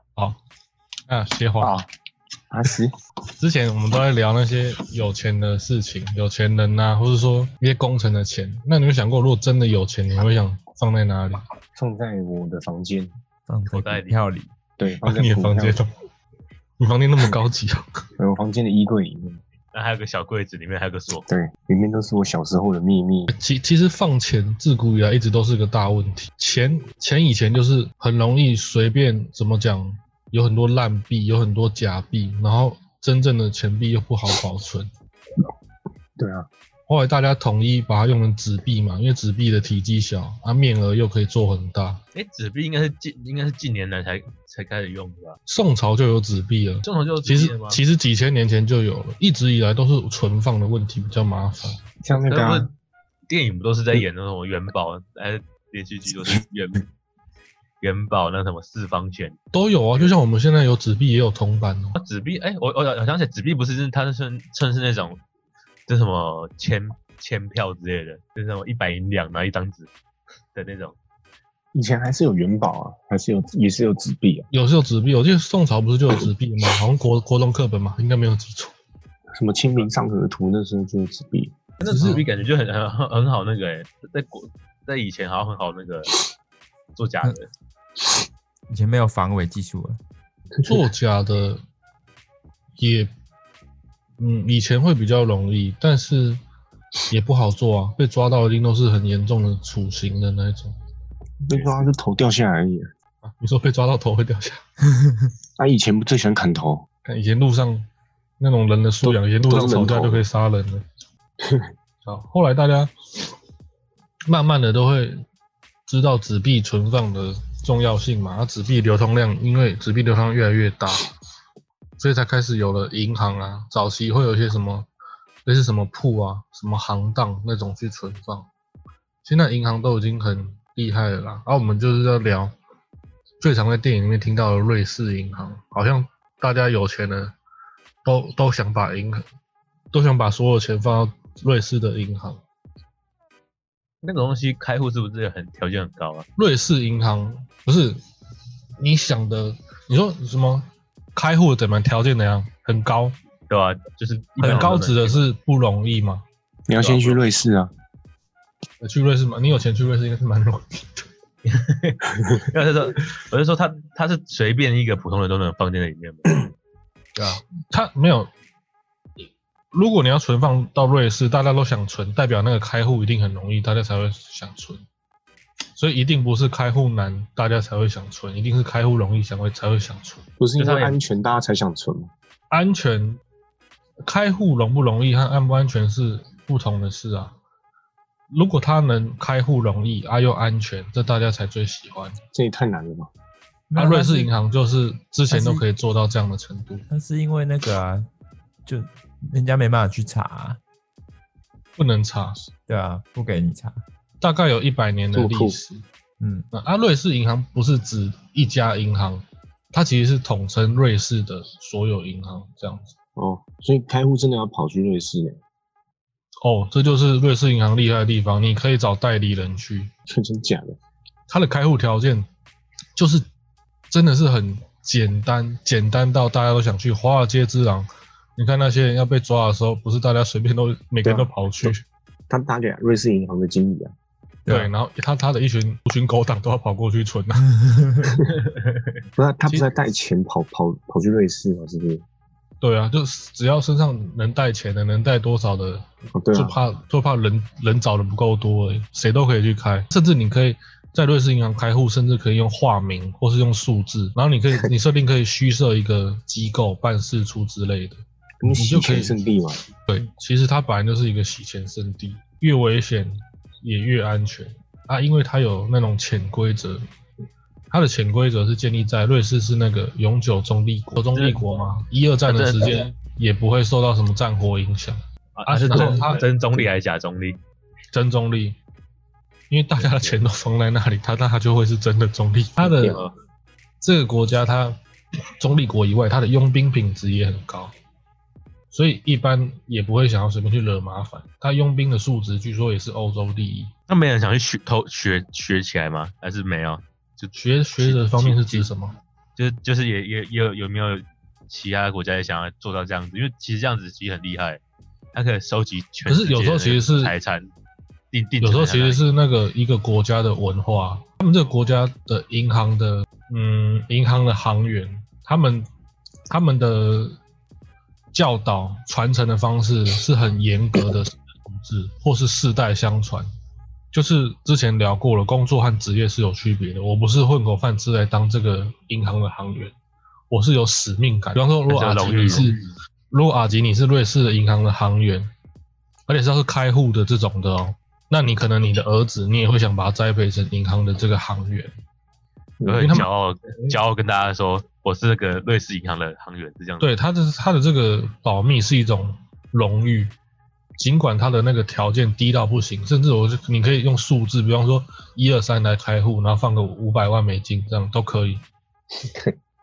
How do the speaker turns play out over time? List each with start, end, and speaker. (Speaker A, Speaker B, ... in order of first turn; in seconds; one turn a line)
Speaker A: 1.1-1.8
Speaker B: 1.6-1.9
Speaker B: 2.5-2.9
Speaker A: 3.4-11.4
Speaker B: 11.8-13.1
Speaker C: 13.5-14.5
Speaker D: 13.7-14.3
Speaker B: 14.8-15.8
Speaker A: 15.0-15.9
Speaker A: 16.8-17.9
Speaker B: 18.2-19.4
Speaker D: 19.7-21.3
Speaker B: 21.3-23.3
Speaker A: 23.3-34.9
Speaker B: 36.2-36.5
Speaker A: 36.9-42.0
Speaker D: 42.1-45.4
Speaker A: 45.5-51.8
Speaker D: 46.9-47.8
Speaker B: 52.0-52.7
Speaker D: 52.1-52.7
Speaker D: 53.3-56.9
Speaker D: 57.8-59.4
Speaker A: 59.5-62.0
Speaker D: 62.0-65.2
Speaker D: 65.9-69.9
Speaker D: 70.5-71.0
Speaker B: 71.7-74.5
Speaker A: 74.5-78.7
Speaker B: 79.4-81.6
Speaker D: 81.8-86.1
Speaker A: 81.8-82.3
Speaker D: 87.0-87.5
Speaker C: 88.7-90.0
Speaker A: 90.7-91.6
Speaker A: 92.8-93.1
Speaker A: 94.2-96.4
Speaker A: 97.1-100.8
Speaker B: 101.5-102.9
Speaker A: 103.2-104.6
Speaker B: 105.6-106.8
Speaker A: 107.0-107.9
Speaker A: 108.4-110.8
Speaker B: 109.0-110.2
Speaker B: 111.4-111.7
Speaker A: 112.0-112.9
Speaker A: 114.3-115.2
Speaker A: 115.9-121.1
Speaker A: 122.0-124.9
Speaker A: 125.5-128.5
Speaker A: 129.2-132.5
Speaker A: 133.4-137.3
Speaker A: 138.1-139.2
Speaker A: 139.9-142.4
Speaker D: 144.0-146.3
Speaker A: 146.4-148.0
Speaker A: 148.8-153.2
Speaker D: 153.5-155.3
Speaker A: 154.4-156.2
Speaker B: 156.7-157.7
Speaker D: 156.8-157.2
Speaker A: 158.8-161.1
Speaker D: 161.4-166.4
Speaker C: 167.2-167.4
Speaker A: 167.7-168.3
Speaker A: 169.7-174.8
Speaker A: 175.8-180.2
Speaker B: 180.4-182.1
Speaker D: 180.6-181.0
Speaker A: 182.5-183.2
Speaker A: 184.1-187.4
Speaker A: 188.3-192.2
Speaker B: 192.3-193.1
Speaker C: 193.7-194.3
Speaker A: 193.8-196.8
Speaker C: 195.3-195.6
Speaker C: 196.9-198.1
Speaker C: 198.7-200.6
Speaker A: 201.8-202.4
Speaker C: 202.7-203.8
Speaker A: 204.2-205.8
Speaker B: 205.1-205.6
Speaker C: 206.2-206.5
Speaker A: 206.5-212.9
Speaker B: 213.2-215.4
Speaker A: 216.4-219.9
Speaker B: 220.1-220.8
Speaker A: 221.3-222.3
Speaker A: 223.0-223.2
Speaker A: 223.9-231.8
Speaker B: 231.0-231.7
Speaker B: 232.3-233.9
Speaker C: 234.4-234.7
Speaker A: 234.5-237.5
Speaker C: 237.6-238.1
Speaker B: 239.2-242.0
Speaker A: 239.5-239.7
Speaker A: 242.6-259.2
Speaker B: 246.1-246.6
Speaker B: 258.4-259.6
Speaker A: 259.9-266.8
Speaker A: 267.7-276.2
Speaker D: 271.1-271.4
Speaker D: 272.3-272.9
Speaker D: 275.4-277.4
Speaker A: 277.9-278.6
Speaker A: 279.5-283.0
Speaker D: 279.8-280.2
Speaker B: 282.6-283.1
Speaker A: 283.8-284.8
Speaker A: 285.4-287.7
Speaker A: 288.7-293.7
Speaker D: 293.9-298.7
Speaker A: 297.4-298.9
Speaker D: 299.4-304.6
Speaker D: 305.1-307.5
Speaker A: 306.1-307.1
Speaker D: 308.1-309.0
Speaker A: 308.4-315.7
Speaker A: 316.3-317.2
Speaker A: 318.1-323.3
Speaker A: 323.9-329.7
Speaker A: 330.3-332.6
Speaker D: 331.7-332.6
Speaker A: 333.1-335.3
Speaker A: 336.1-341.7
Speaker B: 342.6-343.0
Speaker D: 342.6-346.9
Speaker A: 342.8-343.1
Speaker A: 346.8-350.1
Speaker A: 350.8-358.4
Speaker B: 359.0-359.4